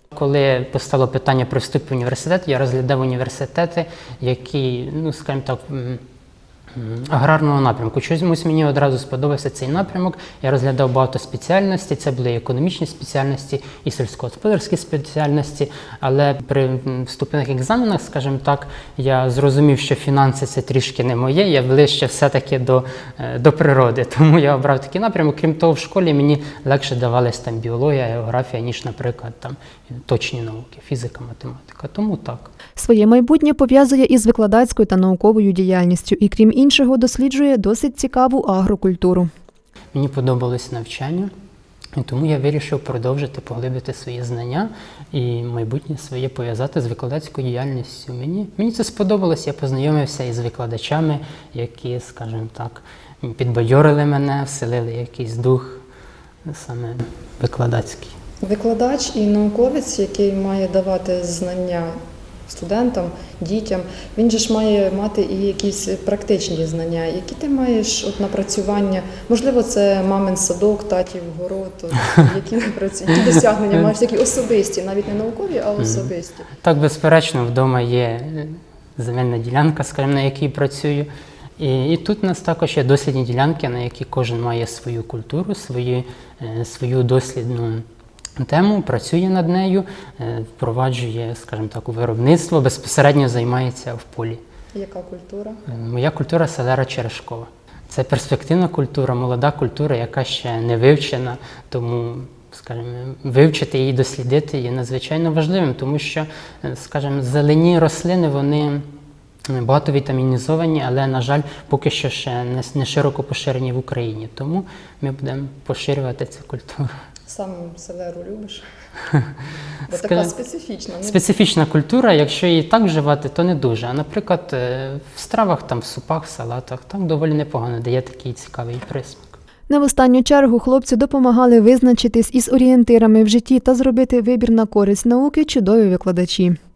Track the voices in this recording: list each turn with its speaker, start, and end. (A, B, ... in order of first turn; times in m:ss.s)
0:00.1-0:06.0 A
0:06.7-0:32.5 A
0:32.8-0:39.3 B
0:39.9-0:41.3 A
0:42.0-0:55.8 A
0:56.5-0:58.2 A
0:58.4-1:02.0 C
1:02.5-1:16.5 C
1:15.8-1:16.1 A
1:16.6-1:27.8 A
1:28.4-1:34.4 A
1:34.7-1:35.6 C
1:35.7-1:48.8 A
1:49.5-1:56.9 A
1:57.3-1:58.6 C
1:59.9-2:01.2 C
1:59.9-2:00.3 A
2:01.0-2:09.3 A
2:09.7-2:16.6 B